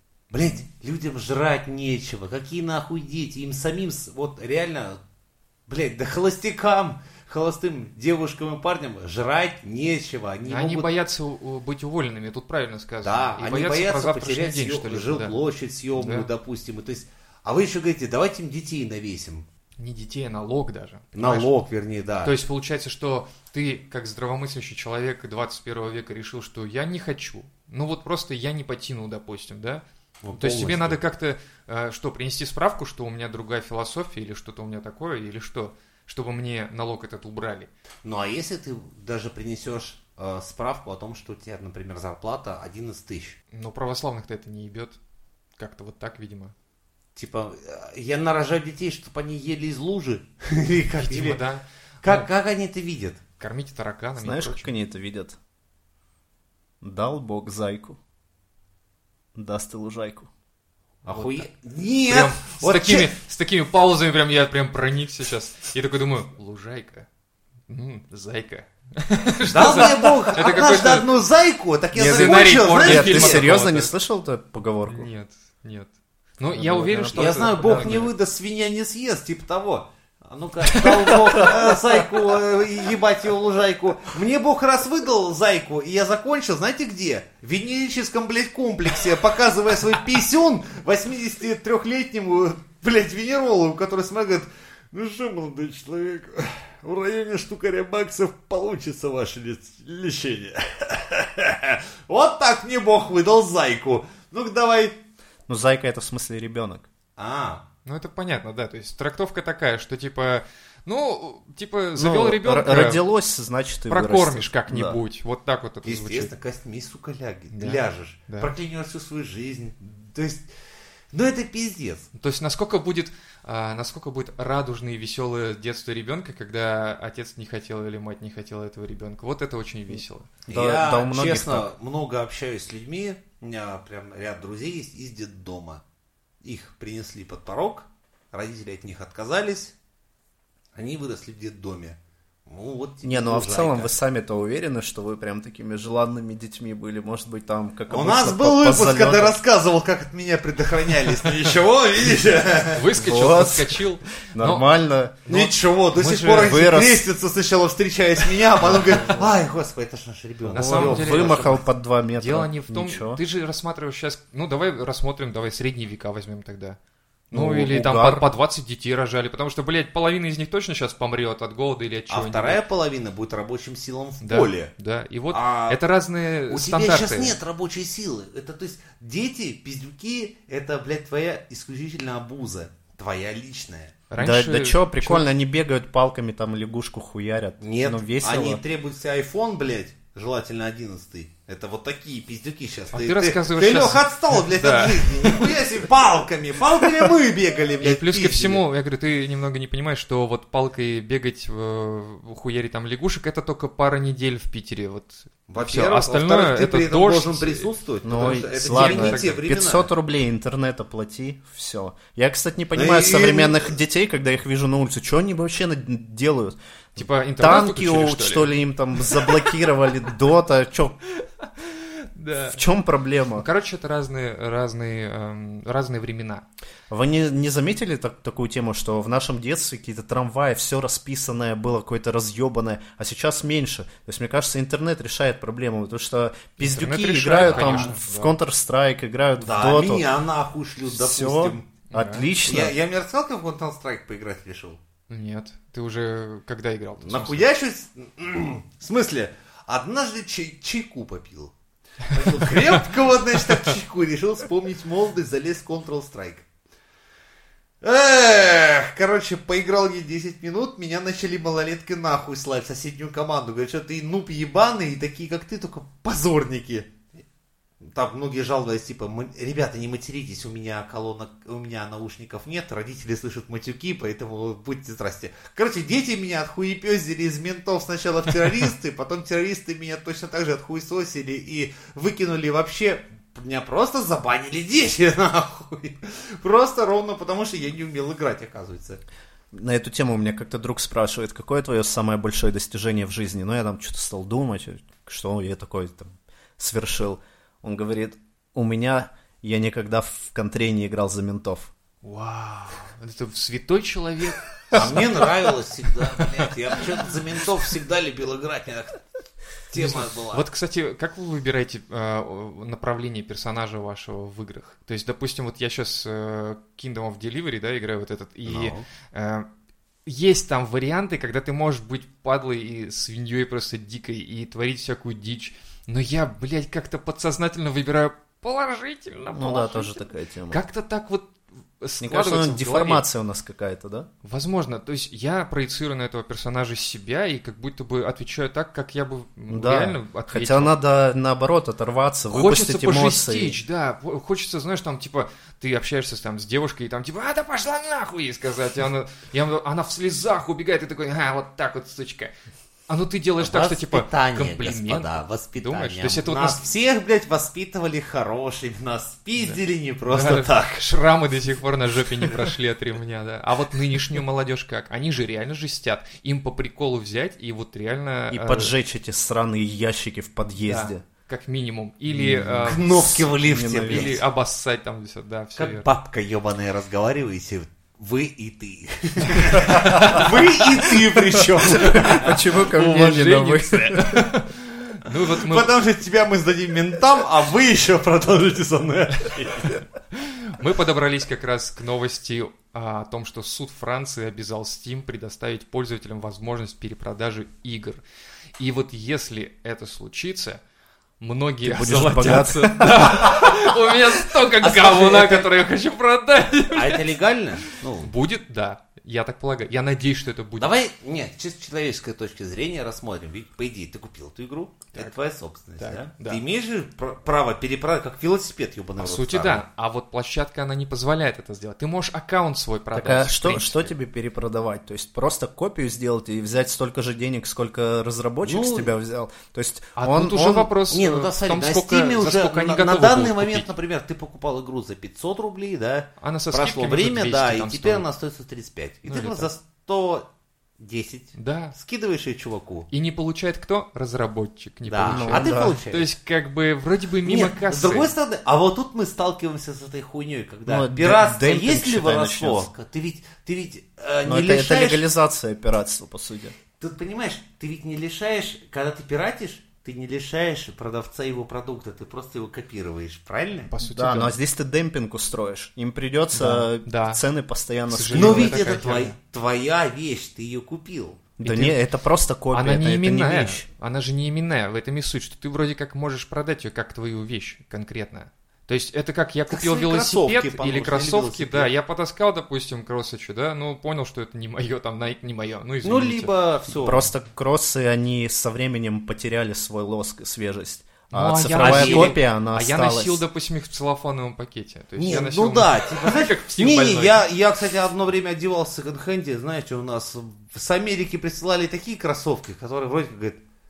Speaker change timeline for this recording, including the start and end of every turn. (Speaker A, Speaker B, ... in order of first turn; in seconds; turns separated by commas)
Speaker A: 0.3-5.0, Speaker A: 5.7-10.9, Speaker B: 10.4-15.4, Speaker A: 13.0-19.5, Speaker B: 15.9-16.3, Speaker B: 19.8-21.5, Speaker A: 21.1-22.3, Speaker B: 22.2-37.7, Speaker A: 30.2-31.0, Speaker A: 38.0-43.4, Speaker B: 43.5-45.0, Speaker B: 45.6-46.5, Speaker A: 47.1-51.4, Speaker B: 51.0-52.3, Speaker A: 52.0-53.2, Speaker B: 53.4-54.7, Speaker C: 54.2-55.4, Speaker C: 56.8-58.0, Speaker C: 59.3-60.3, Speaker A: 61.0-63.1, Speaker B: 61.1-61.5, Speaker B: 62.0-67.1, Speaker B: 67.7-71.1, Speaker A: 69.5-73.5, Speaker B: 71.9-73.9, Speaker C: 72.0-75.1, Speaker B: 74.8-78.1, Speaker C: 76.5-78.0, Speaker A: 77.1-105.0, Speaker B: 80.8-81.6, Speaker C: 105.5-106.9, Speaker A: 107.2-107.7, Speaker B: 107.8-113.0, Speaker C: 112.0-115.0, Speaker B: 113.9-116.3, Speaker A: 115.8-120.5, Speaker B: 117.5-118.5, Speaker A: 121.1-122.1, Speaker B: 122.1-130.3, Speaker C: 129.9-131.7, Speaker A: 130.5-135.8, Speaker A: 136.4-139.7, Speaker A: 140.7-143.9, Speaker C: 143.0-149.4, Speaker A: 147.9-152.8, Speaker B: 152.7-154.7, Speaker C: 152.9-155.3, Speaker B: 155.2-156.6, Speaker A: 155.3-161.6, Speaker C: 156.2-157.1, Speaker B: 158.6-159.3, Speaker B: 160.5-161.6, Speaker C: 160.5-163.2, Speaker B: 162.2-166.8, Speaker B: 167.3-172.6, Speaker C: 167.3-168.3, Speaker A: 172.1-174.7, Speaker B: 174.2-177.4, Speaker A: 175.3-175.8, Speaker A: 176.5-183.9, Speaker B: 184.1-185.3, Speaker C: 184.2-188.6, Speaker A: 187.6-198.6, Speaker B: 192.9-195.7, Speaker B: 197.8-209.4, Speaker A: 205.5-209.9, Speaker C: 208.0-221.0, Speaker A: 212.7-213.7, Speaker B: 216.9-219.6, Speaker B: 221.4-222.6, Speaker C: 222.4-223.4, Speaker B: 223.3-226.4, Speaker C: 226.9-240.1, Speaker B: 236.6-238.3, Speaker A: 237.4-237.9, Speaker A: 239.4-241.7, Speaker C: 240.9-242.8, Speaker B: 241.9-242.3, Speaker A: 242.4-244.8, Speaker B: 245.1-247.4, Speaker A: 247.0-251.5, Speaker A: 252.0-256.4, Speaker A: 257.8-266.9, Speaker A: 267.8-289.0, Speaker C: 289.5-301.7, Speaker B: 302.0-305.5, Speaker A: 304.7-309.0, Speaker B: 306.1-306.8, Speaker A: 309.7-310.4, Speaker B: 309.7-319.5, Speaker A: 318.4-318.8, Speaker B: 320.1-333.0, Speaker C: 329.3-330.6, Speaker C: 332.0-334.1, Speaker B: 334.2-340.7, Speaker C: 339.5-343.6, Speaker B: 342.3-352.3, Speaker B: 352.9-356.6, Speaker A: 353.4-360.9, Speaker B: 359.4-368.7, Speaker C: 368.3-371.0, Speaker B: 370.6-375.9, Speaker C: 372.1-372.8, Speaker A: 372.6-374.2, Speaker C: 373.4-374.2, Speaker A: 375.6-382.4, Speaker B: 379.6-380.4, Speaker C: 379.7-380.2, Speaker C: 381.7-384.3, Speaker B: 381.8-385.7, Speaker A: 385.1-389.8, Speaker B: 390.1-398.0, Speaker B: 398.6-400.6, Speaker B: 401.2-407.2, Speaker C: 401.6-403.5, Speaker A: 404.6-405.5, Speaker A: 406.7-408.1, Speaker B: 408.0-410.7, Speaker A: 410.6-419.6, Speaker B: 415.8-416.4, Speaker B: 419.0-423.9, Speaker C: 422.9-430.7, Speaker A: 428.4-428.9, Speaker B: 430.0-433.7, Speaker A: 430.9-440.3, Speaker B: 436.2-438.1, Speaker B: 439.1-439.5, Speaker A: 440.8-442.9, Speaker B: 441.3-441.7, Speaker B: 442.9-448.1, Speaker A: 444.9-446.1, Speaker C: 445.0-445.8, Speaker A: 447.2-455.0, Speaker C: 450.6-452.7, Speaker C: 454.2-456.5, Speaker A: 456.8-463.7, Speaker B: 463.7-464.4, Speaker C: 463.8-468.6, Speaker B: 466.3-467.2, Speaker B: 467.9-469.1, Speaker A: 468.1-471.2, Speaker C: 471.4-473.6, Speaker B: 471.4-471.8, Speaker B: 472.5-486.3, Speaker A: 479.5-481.7, Speaker A: 485.8-487.1, Speaker C: 486.8-493.2, Speaker B: 491.1-497.2, Speaker A: 491.5-492.2, Speaker A: 495.0-503.4